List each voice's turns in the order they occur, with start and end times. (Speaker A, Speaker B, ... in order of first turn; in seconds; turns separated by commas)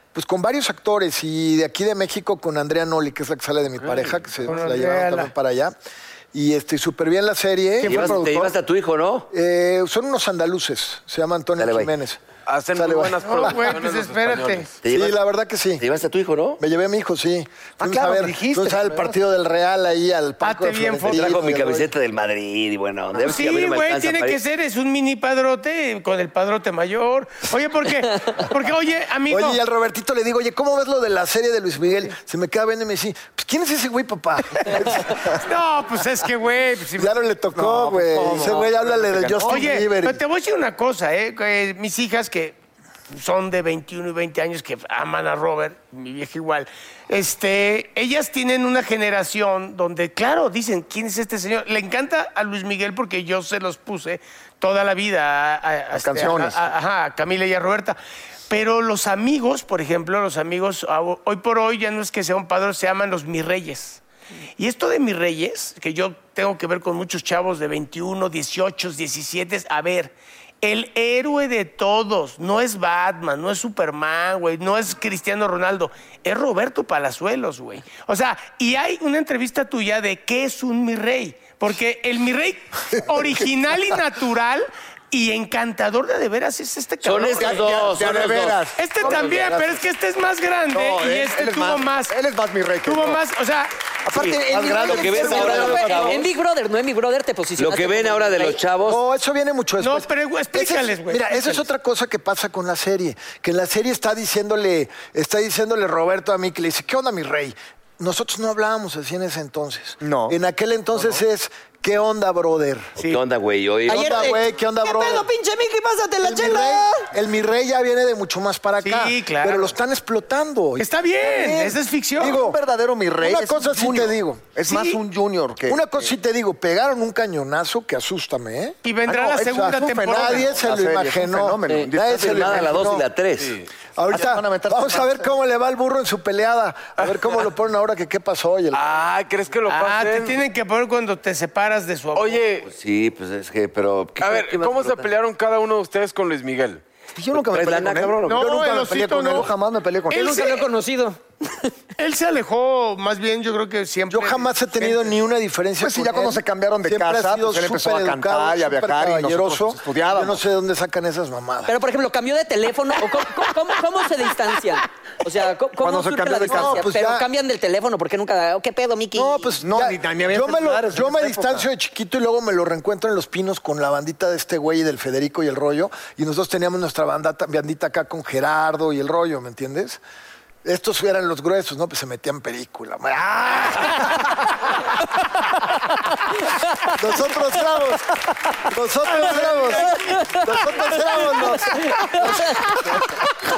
Speaker A: 0.1-5.8, Speaker B: 3.8-4.2, Speaker C: 4.5-5.3, Speaker A: 6.3-8.5, Speaker D: 7.8-9.3, Speaker E: 7.9-8.2, Speaker A: 9.3-12.2, Speaker D: 11.6-11.9, Speaker B: 12.5-14.7, Speaker A: 12.8-13.8, Speaker C: 13.2-14.8, Speaker D: 14.8-15.2, Speaker A: 14.9-15.8, Speaker D: 15.8-16.6, Speaker A: 16.6-21.9, Speaker E: 17.8-19.2, Speaker C: 20.4-21.4, Speaker D: 21.1-24.4, Speaker C: 23.2-29.6, Speaker A: 29.3-35.5, Speaker C: 35.4-37.1, Speaker A: 37.0-40.2, Speaker E: 37.5-39.8, Speaker C: 39.5-42.6, Speaker C: 43.1-58.0, Speaker E: 55.9-56.6, Speaker C: 58.5-64.0, Speaker C: 64.6-87.7, Speaker D: 87.0-89.7, Speaker E: 87.4-89.7, Speaker C: 88.8-92.2, Speaker E: 90.7-93.2, Speaker C: 92.8-93.7, Speaker E: 94.1-96.2, Speaker A: 94.5-96.0, Speaker F: 94.5-98.6, Speaker D: 94.8-96.3, Speaker D: 97.6-99.0, Speaker A: 98.9-112.9, Speaker C: 99.8-101.7, Speaker E: 110.0-110.4, Speaker D: 113.0-114.3, Speaker A: 113.9-115.3, Speaker F: 113.9-117.1, Speaker A: 116.2-122.6, Speaker C: 118.8-119.8, Speaker C: 120.8-122.4, Speaker E: 122.2-126.1, Speaker A: 123.2-124.5, Speaker C: 124.7-125.0, Speaker A: 125.7-133.1, Speaker C: 128.8-130.5, Speaker E: 129.1-132.8, Speaker D: 132.0-133.6, Speaker B: 133.4-133.7, Speaker A: 134.0-138.8, Speaker E: 134.1-135.3, Speaker B: 137.0-137.5, Speaker B: 138.7-140.4, Speaker C: 139.7-142.4, Speaker B: 142.2-142.7, Speaker D: 142.7-145.1, Speaker B: 144.2-146.8, Speaker E: 147.2-150.5, Speaker D: 147.5-148.4, Speaker C: 148.3-149.5, Speaker F: 150.1-151.7, Speaker C: 150.2-150.7, Speaker C: 152.0-155.2, Speaker A: 154.1-161.7, Speaker E: 155.8-160.4, Speaker F: 161.7-169.5, Speaker E: 165.8-166.9, Speaker A: 166.4-167.3, Speaker A: 169.2-180.0, Speaker E: 169.6-171.7, Speaker A: 180.6-184.6, Speaker A: 186.9-193.1, Speaker C: 189.3-189.8, Speaker F: 190.1-190.4, Speaker F: 191.6-192.8